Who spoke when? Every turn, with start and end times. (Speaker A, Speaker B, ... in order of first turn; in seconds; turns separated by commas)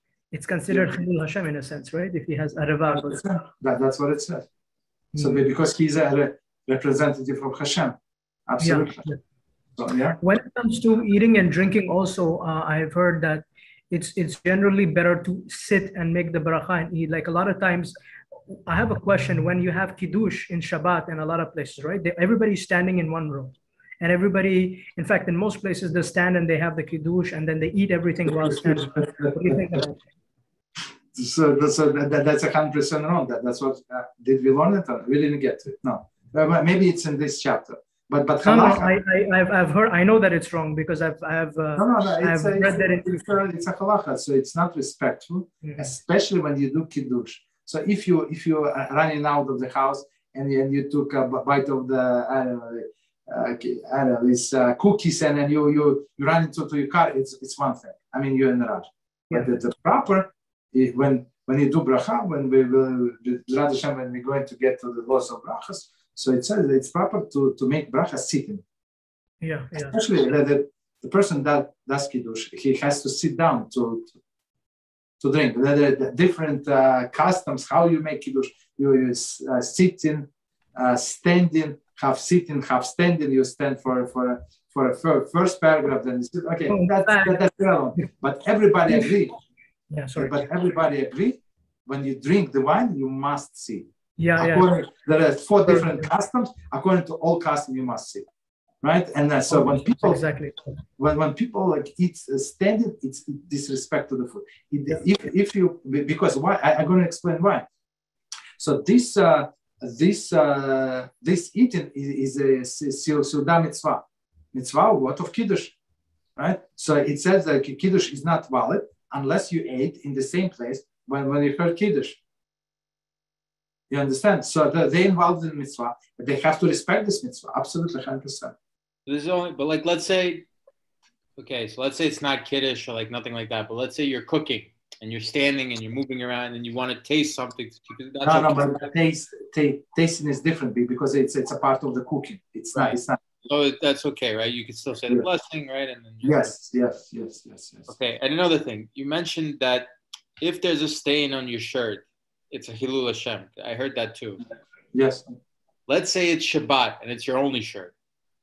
Speaker A: 0.3-3.2, Speaker B: 0.7-0.9, Speaker B: 2.9-4.5, Speaker A: 5.1-5.5, Speaker B: 5.2-7.9, Speaker B: 8.5-9.0, Speaker A: 8.6-9.2, Speaker B: 9.8-10.2, Speaker A: 10.2-17.9, Speaker A: 18.5-30.0, Speaker B: 28.5-29.3, Speaker B: 31.1-38.9, Speaker A: 38.4-43.2, Speaker B: 41.8-68.6, Speaker A: 45.6-45.9, Speaker A: 69.4-70.0, Speaker B: 69.7-74.1, Speaker B: 75.2-89.3, Speaker A: 86.7-87.4, Speaker A: 89.9-90.5, Speaker B: 90.2-98.2, Speaker A: 94.2-94.7, Speaker A: 95.7-96.1, Speaker B: 98.8-100.2, Speaker A: 99.5-100.7, Speaker B: 101.0-107.6, Speaker B: 108.6-115.8, Speaker B: 116.3-122.2, Speaker B: 123.9-128.5, Speaker C: 129.1-130.5, Speaker C: 131.4-138.9, Speaker B: 138.2-143.2, Speaker C: 143.5-146.6, Speaker B: 146.2-147.9, Speaker C: 147.9-149.9, Speaker C: 150.4-154.4, Speaker B: 154.9-155.3, Speaker C: 155.9-157.9